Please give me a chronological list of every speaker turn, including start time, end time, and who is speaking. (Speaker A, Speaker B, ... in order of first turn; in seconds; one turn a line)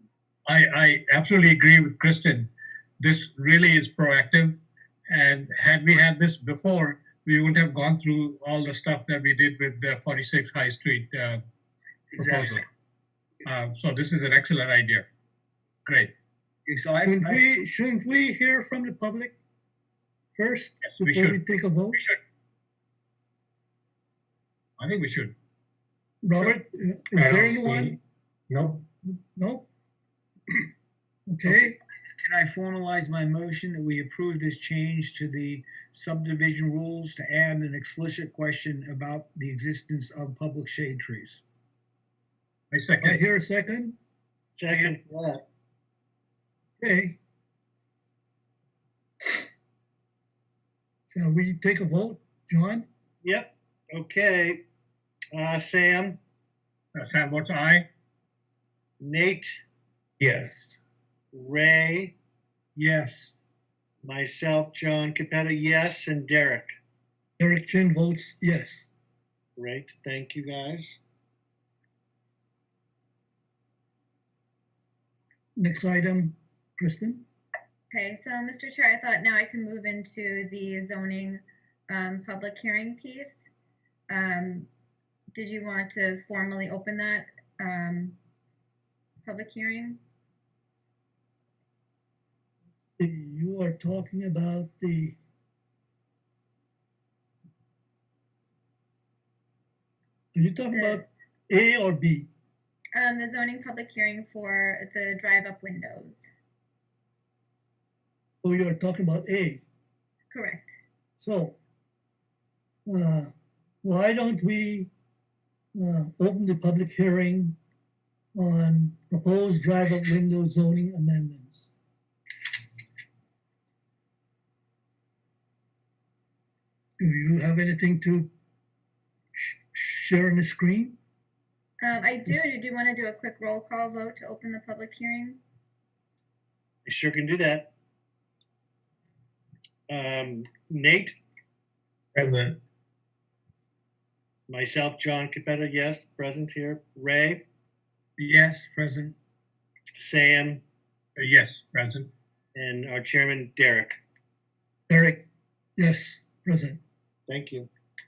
Speaker A: 0.5-2.5
Speaker A: 3.0-4.6
Speaker A: 5.1-11.4
Speaker B: 12.1-12.6
Speaker A: 12.2-12.6
Speaker A: 13.4-15.1
Speaker A: 15.9-16.1
Speaker B: 16.7-17.6
Speaker C: 17.0-19.3
Speaker C: 20.4-22.0
Speaker A: 20.8-21.4
Speaker A: 21.9-22.2
Speaker A: 24.8-25.3
Speaker C: 26.2-28.0
Speaker D: 27.2-28.0
Speaker D: 28.5-28.9
Speaker C: 29.0-29.7
Speaker C: 31.3-31.8
Speaker B: 31.5-41.4
Speaker A: 42.7-43.2
Speaker C: 43.0-44.0
Speaker E: 44.6-45.4
Speaker B: 44.7-45.0
Speaker C: 46.8-47.2
Speaker C: 51.1-52.9
Speaker E: 53.2-54.6
Speaker E: 55.4-56.2
Speaker A: 57.0-57.9
Speaker E: 59.0-59.6
Speaker D: 60.2-60.8
Speaker E: 61.3-62.1
Speaker B: 62.8-63.3
Speaker E: 64.0-66.7
Speaker C: 67.4-68.9
Speaker E: 69.6-71.0
Speaker C: 75.6-77.2
Speaker F: 77.9-83.5
Speaker F: 84.1-84.7
Speaker F: 85.3-88.2
Speaker F: 89.2-90.0
Speaker C: 93.0-95.2
Speaker C: 100.3-102.3
Speaker F: 100.7-101.0
Speaker F: 103.0-106.3
Speaker C: 108.4-109.6
Speaker F: 110.3-110.7
Speaker C: 111.2-111.6
Speaker C: 112.9-113.3
Speaker C: 113.8-114.9
Speaker C: 115.8-117.6
Speaker C: 118.3-121.7
Speaker C: 127.0-128.3
Speaker C: 129.3-131.0
Speaker F: 131.8-135.4
Speaker E: 136.9-137.7
Speaker E: 139.9-141.2
Speaker D: 142.2-142.6
Speaker E: 144.5-147.4
Speaker B: 148.2-149.2
Speaker E: 150.0-150.6
Speaker A: 151.2-152.1
Speaker E: 152.6-154.0
Speaker C: 154.9-155.2
Speaker C: 155.8-156.8
Speaker E: 157.3-157.7